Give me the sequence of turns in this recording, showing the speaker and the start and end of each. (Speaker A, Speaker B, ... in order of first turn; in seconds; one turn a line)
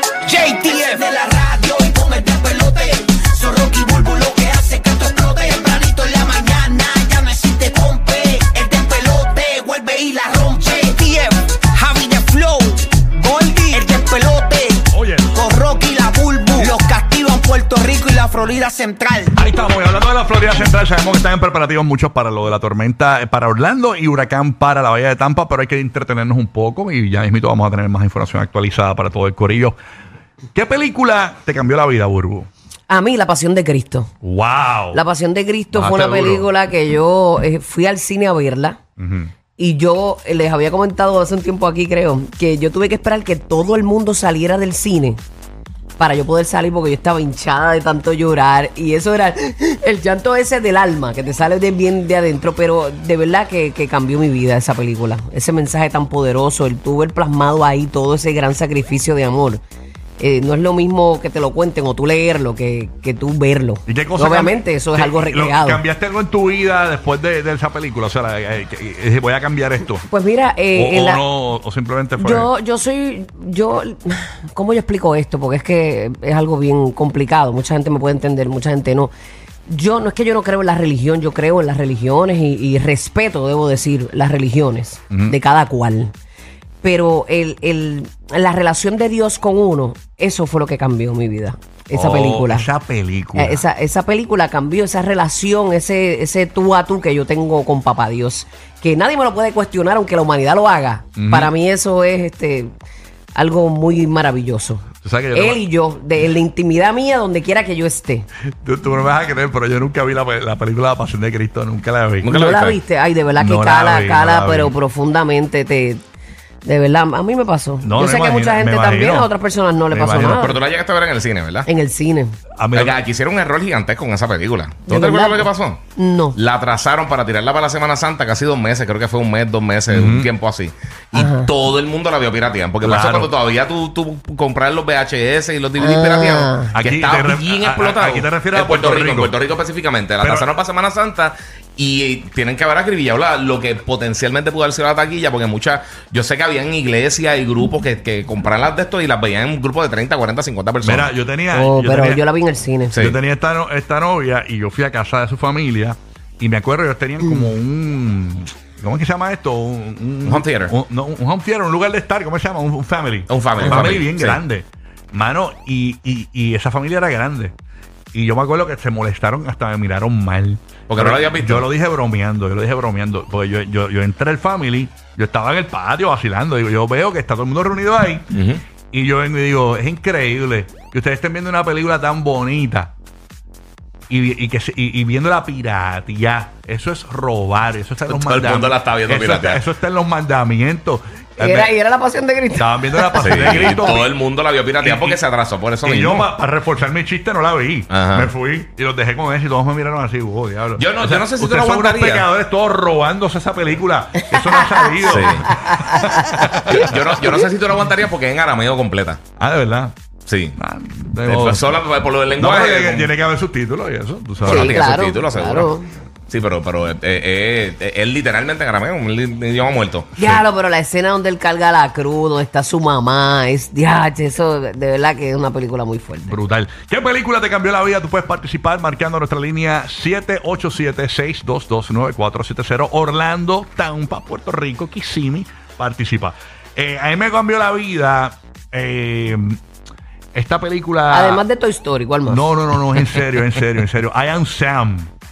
Speaker A: 0.2-19.3
Speaker B: 14.9-15.4
Speaker B: 19.3-29.8
Speaker B: 30.5-32.5
Speaker C: 32.9-34.1
Speaker B: 34.2-35.0
Speaker C: 34.9-38.8
Speaker B: 35.7-36.5
Speaker D: 35.8-36.3
Speaker B: 39.0-39.3
Speaker C: 39.6-45.2
Speaker C: 46.0-59.6
Speaker C: 60.2-65.8
Speaker B: 63.9-70.0
Speaker C: 70.1-71.2
Speaker B: 70.7-72.5
Speaker C: 72.2-79.1
Speaker C: 79.7-86.1
Speaker B: 85.1-85.4
Speaker C: 86.8-92.7
Speaker B: 91.9-93.6
Speaker C: 93.4-102.7
Speaker B: 101.2-101.5
Speaker C: 103.4-108.3
Speaker B: 105.0-105.6
Speaker B: 108.6-112.3
Speaker D: 112.2-112.8
Speaker C: 112.3-116.0
Speaker B: 113.4-114.8
Speaker C: 116.7-120.6
Speaker B: 117.8-119.3
Speaker B: 119.9-120.5
Speaker D: 120.4-121.7
Speaker C: 121.7-122.3
Speaker B: 122.6-123.0
Speaker D: 122.8-125.8
Speaker C: 124.9-126.4
Speaker D: 126.3-151.1
Speaker B: 129.9-130.3
Speaker C: 131.1-131.5
Speaker B: 132.8-133.3
Speaker C: 135.8-136.8
Speaker B: 136.7-139.3
Speaker B: 140.2-140.5
Speaker B: 150.8-152.2
Speaker C: 151.5-153.0
Speaker D: 152.9-153.2
Speaker B: 152.9-167.5
Speaker D: 160.2-160.7
Speaker D: 163.3-164.4
Speaker B: 168.1-178.3
Speaker D: 170.9-171.7
Speaker D: 178.3-178.6
Speaker B: 178.9-182.9
Speaker B: 184.1-191.7
Speaker D: 188.1-189.6
Speaker C: 191.4-194.0
Speaker B: 192.6-194.1
Speaker D: 193.2-196.3
Speaker B: 194.8-195.2
Speaker B: 195.8-207.2
Speaker D: 197.9-198.3
Speaker D: 200.8-202.3
Speaker C: 204.8-207.5
Speaker D: 205.0-205.5
Speaker D: 206.7-209.2
Speaker B: 209.4-209.9
Speaker D: 210.3-210.6
Speaker B: 210.6-211.7
Speaker D: 211.2-213.1
Speaker B: 212.4-214.8
Speaker D: 214.4-215.8
Speaker C: 214.4-215.9
Speaker D: 216.3-220.1
Speaker C: 220.2-226.4
Speaker B: 226.2-239.6
Speaker B: 240.3-241.4
Speaker C: 241.1-243.1
Speaker B: 242.3-245.1